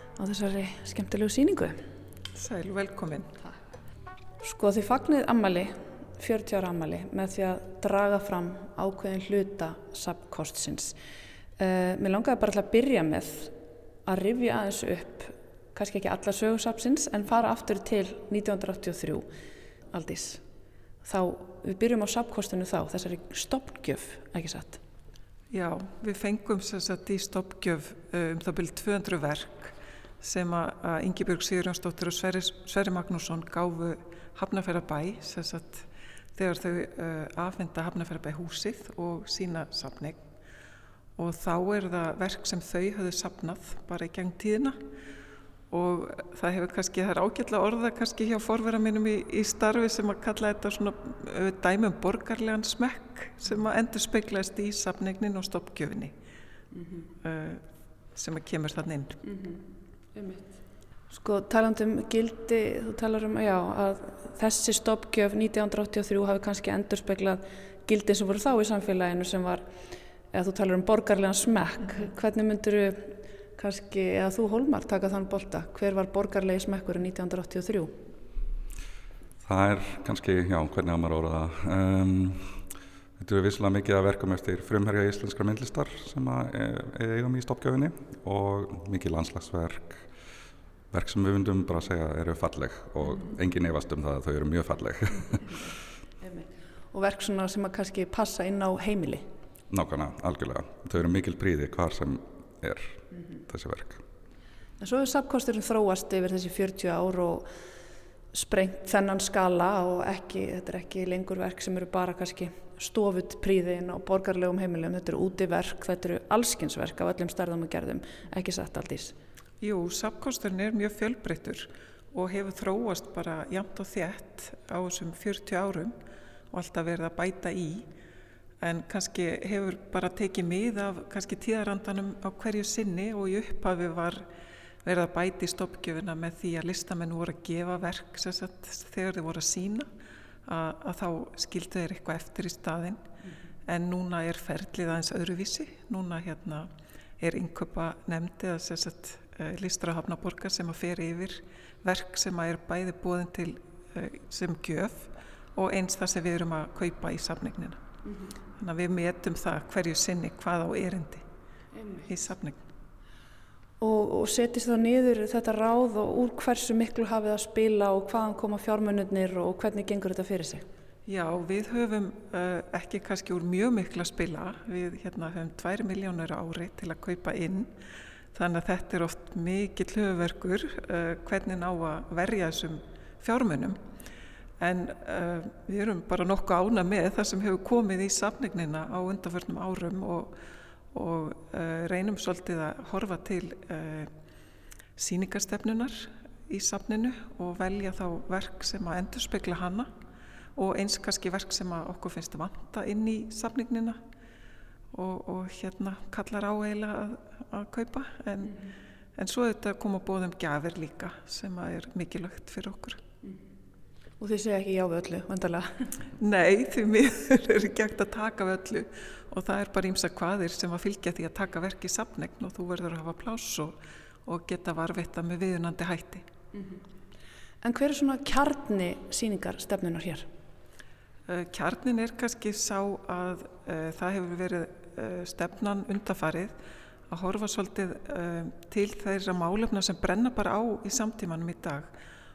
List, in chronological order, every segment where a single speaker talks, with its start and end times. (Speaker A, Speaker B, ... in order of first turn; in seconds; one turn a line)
Speaker A: 0.2-1.8
Speaker B: 2.4-3.4
Speaker A: 4.4-11.0
Speaker A: 11.6-13.5
Speaker A: 14.1-19.3
Speaker A: 19.9-20.4
Speaker A: 21.0-24.8
Speaker B: 25.5-40.2
Speaker B: 41.2-44.8
Speaker B: 45.7-56.1
Speaker A: 56.7-57.0
Speaker B: 57.2-57.6
Speaker B: 58.1-59.2
Speaker A: 59.2-59.6
Speaker A: 60.2-60.4
Speaker A: 61.1-69.7
Speaker A: 70.3-77.9
Speaker C: 79.4-82.6
Speaker C: 83.2-90.1
Speaker C: 90.9-95.6
Speaker A: 96.2-99.3
Speaker C: 99.7-104.0
Speaker A: 104.8-107.5
Speaker A: 108.3-119.2
Speaker B: 119.6-126.0
Speaker B: 126.5-127.9
Speaker B: 128.6-134.3
Speaker B: 134.8-139.9
Speaker B: 140.5-143.0
Speaker B: 143.7-157.8
Speaker B: 158.6-161.2
Speaker A: 161.8-162.1
Speaker B: 162.1-162.6
Speaker A: 163.8-170.7
Speaker B: 171.1-177.7
Speaker B: 178.3-183.8
Speaker B: 184.6-190.4
Speaker B: 190.9-194.1
Speaker B: 195.0-199.9
Speaker B: 200.6-204.0
Speaker B: 204.9-213.0
Speaker A: 214.2-215.9
Speaker B: 216.2-226.2
Speaker A: 227.6-230.3
Speaker B: 231.3-236.6
Speaker B: 237.1-241.9